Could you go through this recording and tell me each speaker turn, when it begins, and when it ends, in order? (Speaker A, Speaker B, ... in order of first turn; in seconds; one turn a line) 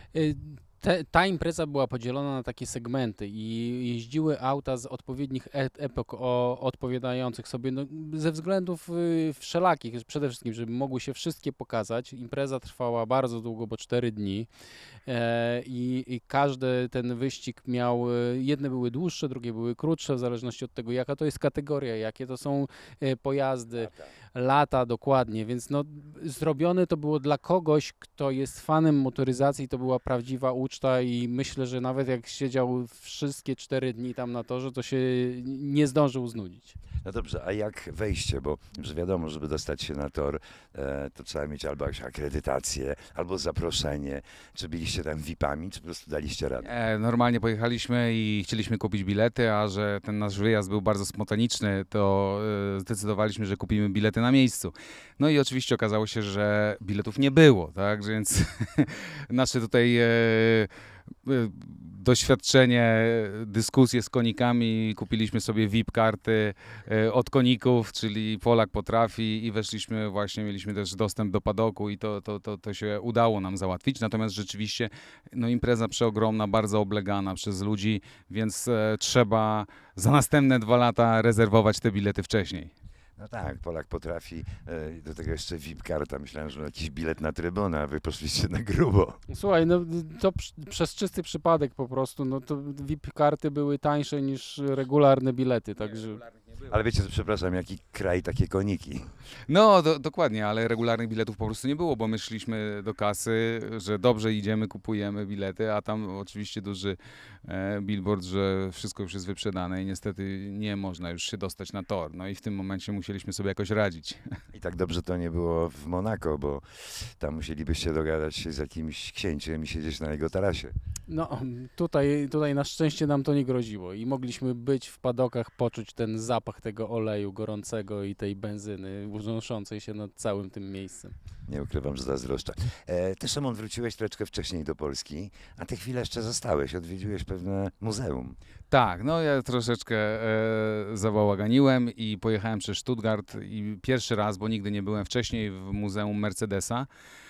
Speaker A: 0.1-14.5
Speaker A: 15.1-36.8
Speaker B: 37.0-46.7
Speaker C: 46.6-60.7
Speaker C: 61.2-82.7
Speaker B: 83.2-89.2
Speaker A: 89.3-96.2
Speaker B: 96.7-99.1
Speaker C: 99.5-114.3
Speaker B: 114.5-120.7
Speaker A: 121.1-131.1
Speaker B: 131.5-138.3
Speaker C: 138.7-146.9